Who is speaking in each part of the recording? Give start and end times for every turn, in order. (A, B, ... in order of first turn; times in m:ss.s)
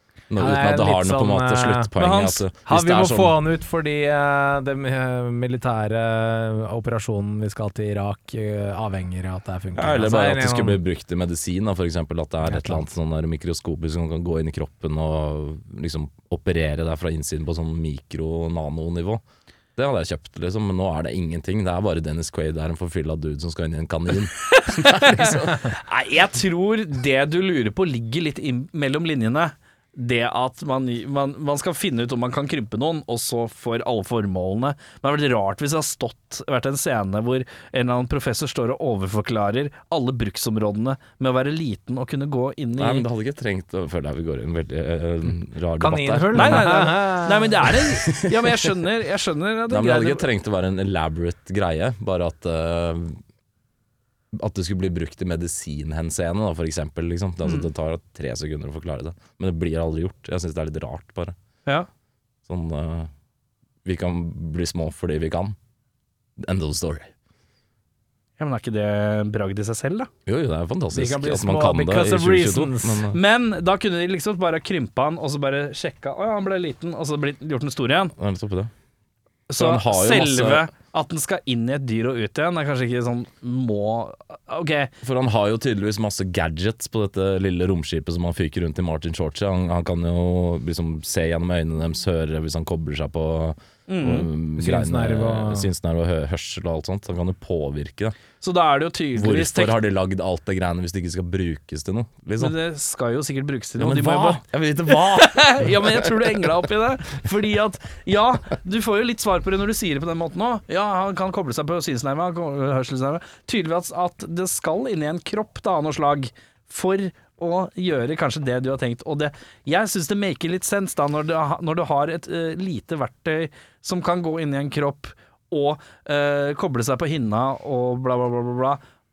0:00.3-0:03.4 A
0:00.4-0:01.9 B
0:02.0-0:02.4 C
0:02.7-0:10.8 B
0:09.8-0:19.2 A
0:12.4-0:12.8 B
0:19.8-0:25.6 A
0:24.8-0:43.0 C
0:42.8-0:46.7 A
0:45.8-0:47.8 B
0:46.3-0:50.3 C
0:48.1-0:48.5 A
0:49.7-0:53.2 A
0:54.3-1:01.4 A
1:02.5-1:03.1 A
1:03.8-1:05.6 A
1:06.4-1:07.1 A
1:08.4-1:10.1 C
1:10.3-1:13.2 A
1:10.9-1:13.1 B
1:13.1-1:18.1 C
1:18.2-1:18.7 A
1:19.5-1:24.9 C
1:19.5-1:20.7 A
1:25.0-1:38.2 A
1:33.9-1:34.3 C
1:34.6-1:35.7 B
1:38.4-1:39.8 C
1:39.2-1:42.6 A
1:42.4-2:08.8 C
1:43.8-1:46.1 A